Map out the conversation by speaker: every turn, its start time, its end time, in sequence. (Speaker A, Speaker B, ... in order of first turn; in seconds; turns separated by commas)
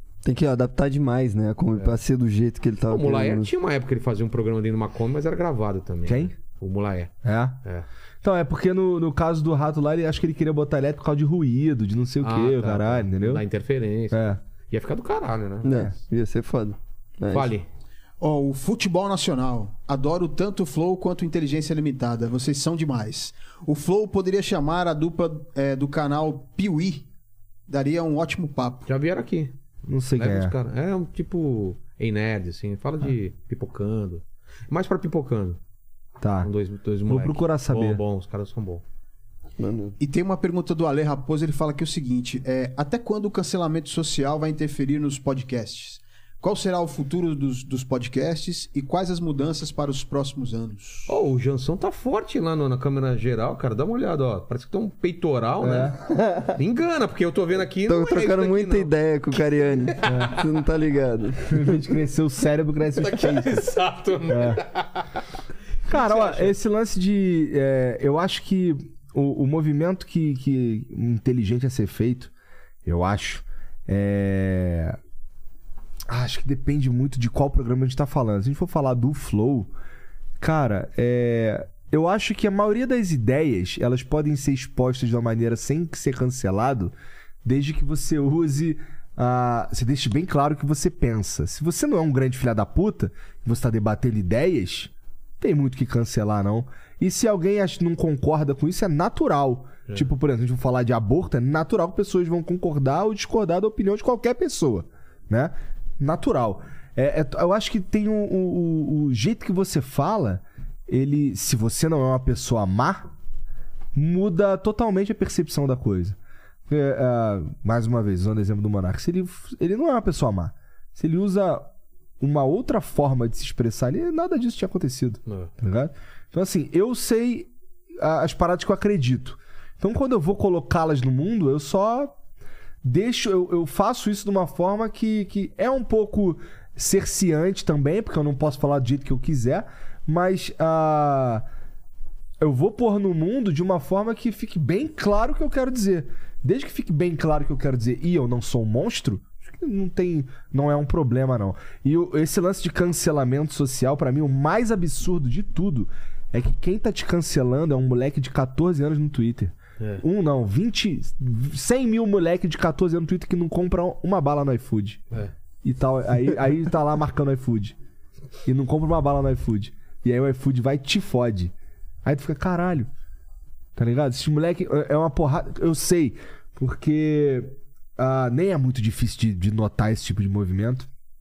Speaker A: 0.2-3.5, Speaker B: 2.9-7.1, Speaker C: 6.0-6.3, Speaker C: 7.2-7.6, Speaker C: 8.2-13.4, Speaker B: 12.2-15.9, Speaker C: 14.1-14.4, Speaker A: 15.6-17.5, Speaker B: 17.3-17.7, Speaker D: 18.2-27.1, Speaker D: 27.7-28.9, Speaker B: 28.9-29.5, Speaker C: 29.9-30.5, Speaker B: 30.1-35.6, Speaker C: 36.2-36.5, Speaker B: 36.4-38.8, Speaker C: 37.1-38.0, Speaker A: 39.6-40.0, Speaker D: 40.0-51.1, Speaker B: 51.1-56.0, Speaker C: 55.6-56.0, Speaker A: 56.1-56.6, Speaker B: 56.5-58.9, Speaker A: 57.9-61.9, Speaker B: 60.0-60.3, Speaker C: 60.0-60.4, Speaker C: 61.5-63.6, Speaker B: 62.9-65.1, Speaker C: 64.3-64.6, Speaker B: 65.9-66.5, Speaker C: 65.9-72.3, Speaker C: 72.8-75.0, Speaker C: 76.1-79.7, Speaker C: 80.4-86.9, Speaker C: 87.4-113.0, Speaker C: 113.9-116.2, Speaker C: 116.7-121.7, Speaker C: 122.2-132.1, Speaker B: 125.3-125.5, Speaker C: 132.8-141.4, Speaker C: 142.4-165.1, Speaker C: 165.6-167.7, Speaker C: 168.4-171.5, Speaker C: 172.0-172.9, Speaker C: 173.8-180.9